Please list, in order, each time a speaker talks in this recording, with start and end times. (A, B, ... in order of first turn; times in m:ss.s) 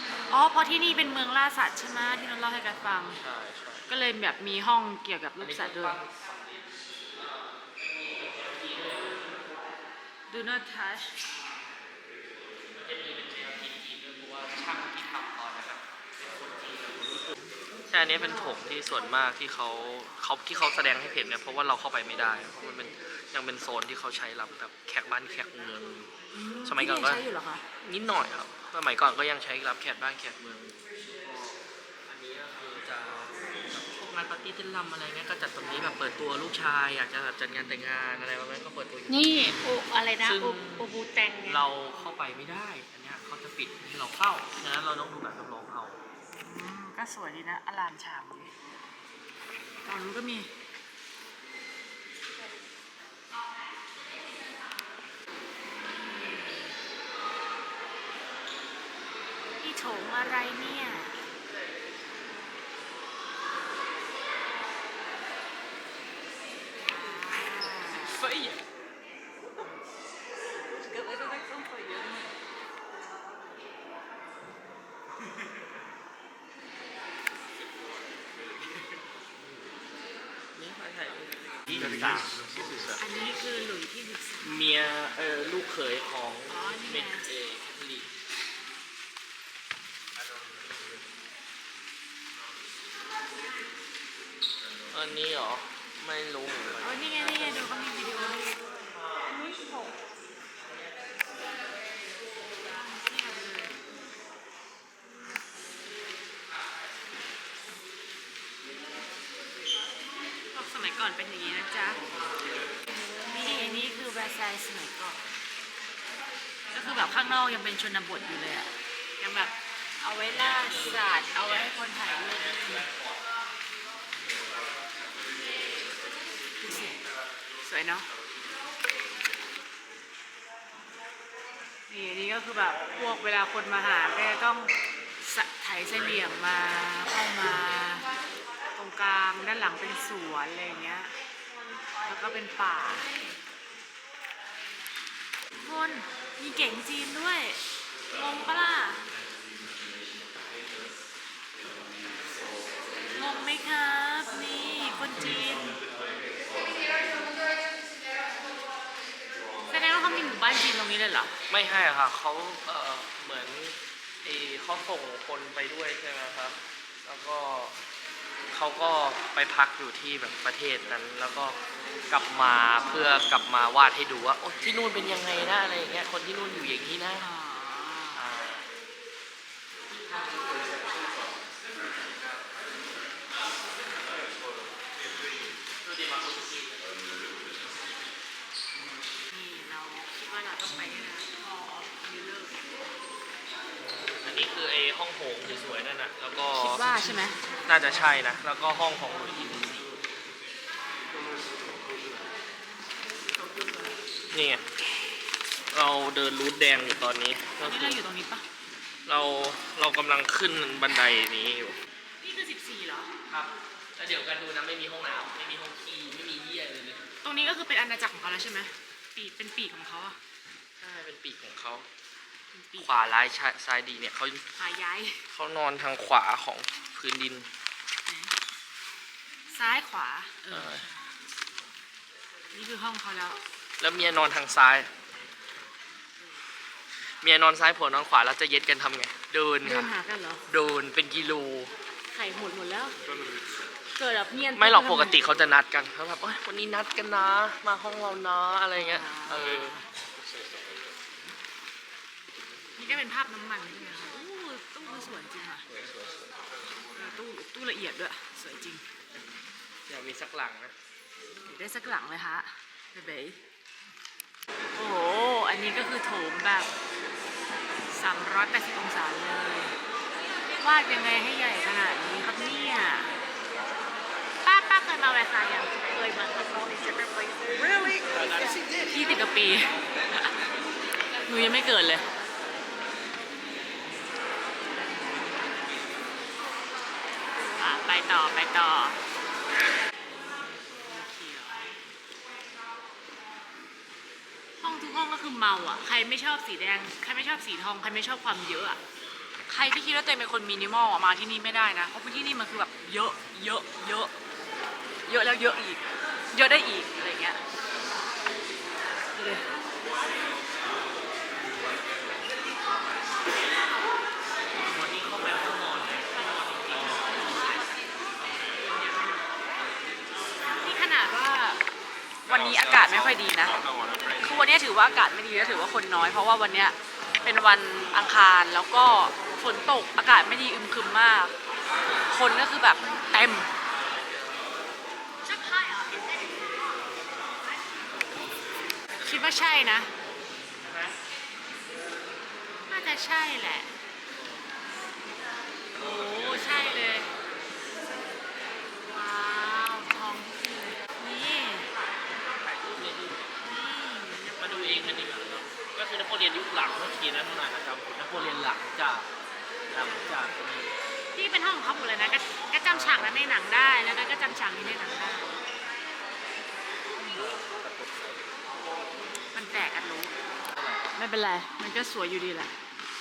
0:00.3-0:03.2 A
0:03.2-0:03.8 B
0:03.9-0:06.0 A
0:05.4-0:06.6 B
0:07.1-0:09.4 B
0:10.3-0:11.1 A
0:12.7-0:17.3 B
0:17.9-0:26.1 B
0:26.3-0:27.6 A
0:26.6-0:27.2 B
0:27.8-0:31.6 B
0:32.1-0:39.4 B
0:39.1-0:41.6 C
0:40.2-0:46.0 B
0:46.3-0:48.5 A
0:49.8-0:50.5 A
0:59.6-1:01.2 A
1:06.9-1:08.6 A
1:20.5-1:22.9 B
1:23.0-1:24.5 A
1:24.4-1:28.1 B
1:26.5-1:27.2 A
1:34.9-1:37.7 B
1:36.8-1:38.5 A
1:39.0-1:39.3 B
1:39.3-1:39.9 C
1:42.7-1:43.7 A
1:50.5-1:52.0 A
1:53.3-1:55.2 A
1:56.7-2:02.9 A
2:00.4-2:00.7 B
2:02.4-2:03.1 B
2:06.6-2:07.0 A
2:07.6-2:08.1 A
2:11.9-2:18.0 A
2:18.7-2:21.1 A
2:22.0-2:23.0 A
2:25.6-2:27.6 A
2:28.1-2:29.0 A
2:33.1-2:35.8 A
2:39.7-2:41.3 A
2:41.5-2:47.7 B
2:48.5-2:51.6 B
2:52.1-2:57.2 B
2:57.2-2:58.3 A
2:58.1-2:58.7 B
3:05.8-3:07.0 B
3:09.3-3:12.6 A
3:14.2-3:19.9 B
3:16.5-3:17.4 A
3:24.3-3:24.6 B
3:25.7-3:28.0 B
3:27.6-3:28.4 A
3:29.1-3:31.8 B
3:32.2-3:33.1 A
3:33.3-3:37.0 B
3:37.2-3:40.2 A
3:40.8-3:41.8 B
3:42.5-3:43.0 A
3:42.8-3:44.4 B
3:44.6-3:45.2 A
3:45.3-3:47.5 B
3:48.1-3:48.3 A
3:49.5-3:51.0 A
3:50.5-3:50.8 B
3:52.5-3:53.4 A
3:53.8-3:54.9 B
3:57.2-3:59.9 B
3:59.6-4:00.4 A
4:00.5-4:01.7 B
4:02.1-4:03.0 A
4:04.0-4:05.2 A
4:04.5-4:09.7 B
4:08.7-4:09.8 A
4:12.8-4:15.6 A
4:16.9-4:18.8 A
4:19.9-4:20.7 B
4:21.5-4:23.4 A
4:24.7-4:26.7 A
4:27.9-4:29.7 A
4:30.6-4:33.1 A
4:34.4-4:35.9 A
4:35.8-4:38.0 C
4:38.1-4:38.6 B
4:38.9-4:40.3 A
4:41.2-4:42.0 A
4:47.4-4:49.0 A
4:50.6-4:51.8 A
4:54.6-4:58.8 A
4:59.5-5:04.1 A
5:05.0-5:07.4 A
5:09.1-5:09.4 A
5:14.6-5:17.3 B
5:20.6-5:21.6 A
5:22.3-5:23.6 A
5:24.2-5:31.3 A
5:32.1-5:33.5 A
5:35.2-5:36.6 C
5:39.0-5:39.9 A
5:40.6-5:40.9 B
5:42.7-5:43.7 A
5:45.8-5:47.1 A
5:45.9-5:46.7 B
5:48.8-5:51.7 A
5:52.1-5:53.4 B
5:53.4-5:55.0 A
5:54.4-5:59.1 B
5:59.7-6:00.7 B
6:01.1-6:05.3 A
6:02.6-6:03.2 B
6:07.0-6:07.2 A
6:07.1-6:08.3 B
6:09.3-6:10.1 A
6:10.5-6:10.9 B
6:10.9-6:12.5 A